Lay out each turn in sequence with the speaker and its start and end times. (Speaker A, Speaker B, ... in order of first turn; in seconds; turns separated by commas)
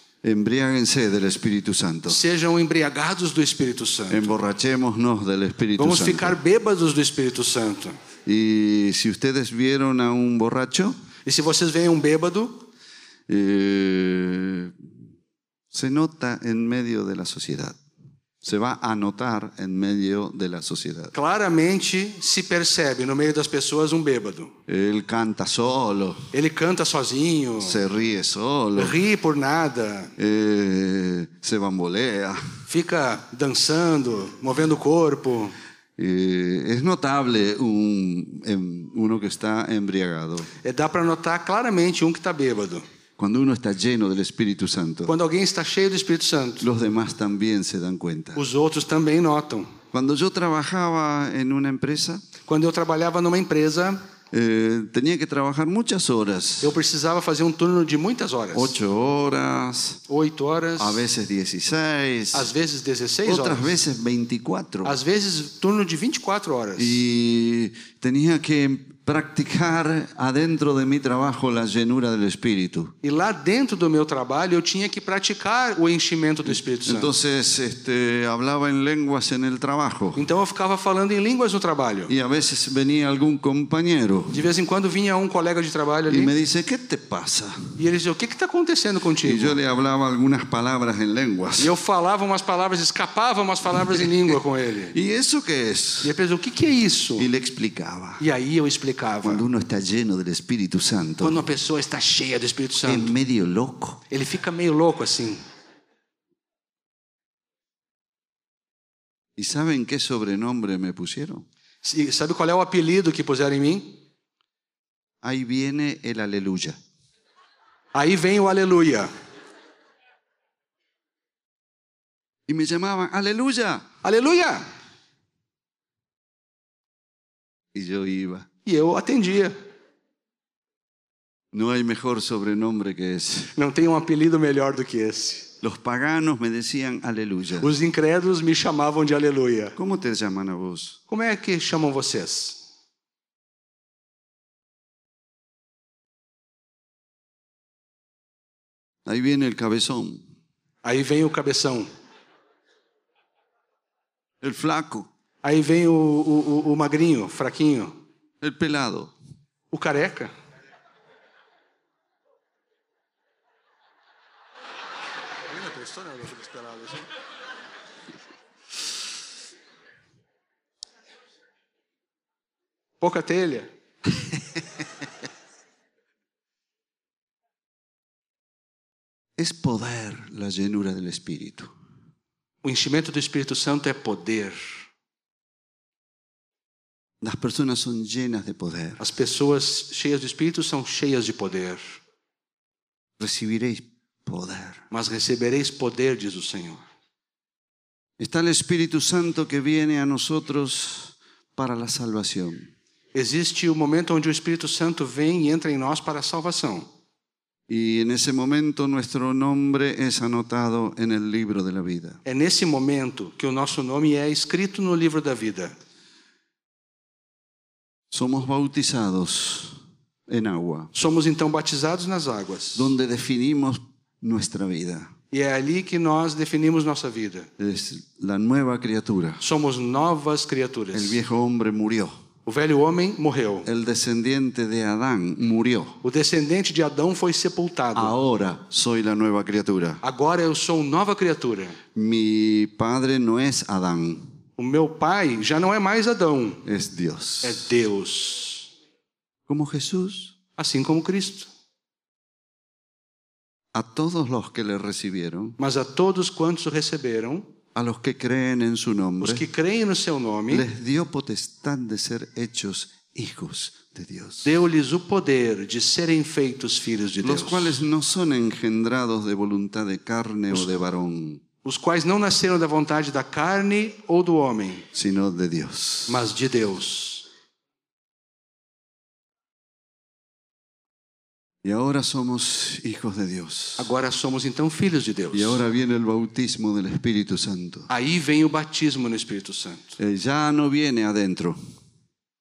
Speaker A: 0.2-2.2, Speaker B: 2.1-4.4, Speaker A: 4.1-6.3, Speaker B: 5.8-8.0, Speaker A: 8.2-11.0, Speaker B: 11.2-12.7, Speaker A: 13.3-14.9, Speaker A: 15.7-17.8, Speaker A: 18.4-21.1, Speaker B: 21.1-24.5, Speaker A: 24.7-26.2, Speaker B: 26.3-27.8, Speaker A: 27.6-28.9, Speaker B: 28.8-30.1, Speaker A: 30.2-32.4, Speaker B: 32.7-35.5, Speaker A: 36.0-40.5, Speaker B: 40.6-42.8, Speaker A: 43.2-45.1, Speaker B: 45.0-46.7, Speaker A: 46.6-48.4, Speaker B: 48.3-49.7, Speaker A: 49.9-52.2, Speaker B: 52.5-54.0, Speaker A: 54.3-56.7, Speaker B: 56.6-58.7, Speaker A: 58.5-60.0, Speaker B: 60.1-61.0, Speaker A: 60.8-62.5, Speaker B: 62.3-63.7, Speaker A: 63.2-65.0, Speaker B: 64.8-67.0, Speaker A: 66.8-72.9, Speaker B: 73.0-77.1, Speaker A: 76.8-80.2, Speaker B: 80.2-82.1, Speaker A: 82.1-84.4, Speaker B: 84.3-86.3, Speaker A: 86.1-87.6, Speaker B: 87.8-89.6, Speaker A: 89.2-91.7, Speaker B: 91.6-95.0, Speaker A: 94.9-96.1, Speaker B: 96.0-97.3, Speaker A: 97.2-98.2, Speaker B: 98.2-99.4, Speaker A: 99.2-101.4, Speaker B: 101.2-103.1, Speaker A: 102.8-104.0, Speaker B: 104.1-105.4, Speaker A: 109.4-111.5, Speaker B: 111.8-114.0, Speaker A: 115.2-116.8, Speaker B: 117.9-119.1, Speaker A: 122.5-123.9, Speaker B: 124.0-124.7, Speaker A: 127.7-128.5, Speaker B: 128.6-129.5, Speaker A: 131.5-133.5, Speaker B: 133.5-135.5, Speaker A: 135.6-137.7, Speaker B: 137.6-139.8, Speaker A: 139.8-141.0, Speaker B: 141.1-142.6, Speaker A: 149.0-150.2, Speaker B: 150.8-151.9, Speaker A: 154.4-155.1, Speaker B: 155.4-157.9, Speaker A: 158.4-159.1, Speaker B: 159.7-160.3, Speaker B: 165.5-167.1, Speaker B: 173.0-173.7, Speaker A: 179.4-181.7, Speaker B: 182.6-184.7, Speaker A: 187.2-189.0, Speaker B: 189.0-191.8, Speaker A: 193.2-194.8, Speaker B: 194.9-196.8, Speaker A: 198.2-202.7, Speaker B: 203.1-206.9, Speaker A: 207.7-212.2, Speaker B: 212.2-215.7, Speaker A: 218.1-220.9, Speaker B: 220.9-222.9, Speaker A: 222.7-225.1, Speaker B: 225.3-227.5, Speaker A: 227.6-229.4, Speaker B: 229.4-231.2, Speaker A: 230.9-232.1, Speaker B: 232.4-233.7, Speaker A: 233.6-236.0, Speaker B: 236.0-238.1, Speaker A: 237.9-240.0, Speaker B: 240.0-241.8, Speaker A: 241.9-244.3, Speaker B: 244.6-246.6, Speaker A: 246.6-247.6, Speaker B: 247.4-248.7, Speaker A: 249.5-250.3, Speaker B: 250.6-251.5, Speaker A: 253.7-255.6, Speaker B: 255.6-257.5, Speaker A: 257.7-259.4, Speaker B: 259.2-260.6, Speaker A: 260.5-264.5, Speaker B: 264.4-267.8, Speaker A: 267.2-271.4, Speaker B: 271.6-274.8, Speaker A: 274.9-276.2, Speaker B: 276.1-277.3, Speaker A: 281.6-283.9, Speaker B: 283.8-285.6, Speaker A: 285.3-287.9, Speaker B: 287.9-290.0, Speaker A: 290.0-291.6